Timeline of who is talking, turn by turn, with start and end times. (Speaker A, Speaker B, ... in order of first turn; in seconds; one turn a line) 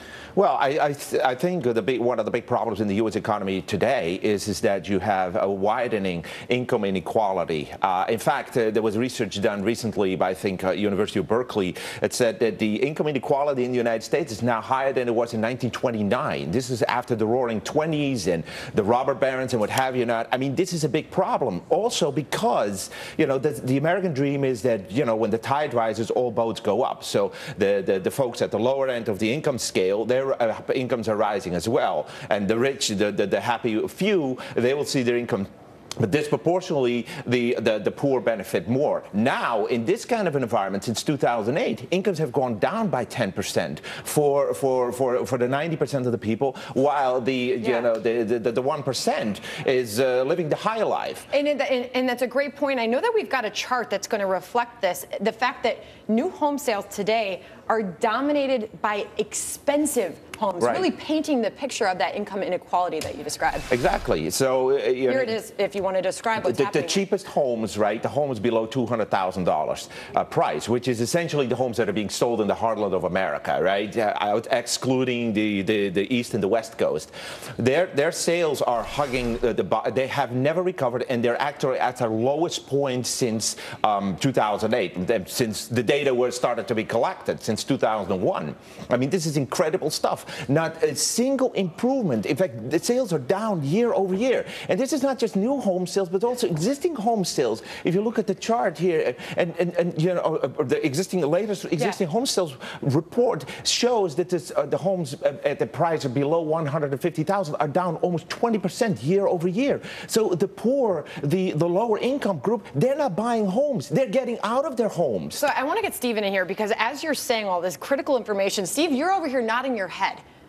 Speaker A: 0.3-51.3
Speaker B: 47.6-47.9
Speaker B: 51.3-63.7
Speaker A: 60.6-60.9
Speaker A: 63.7-65.3
Speaker B: 65.1-67.0
Speaker A: 66.4-115.4
Speaker B: 115.3-120.2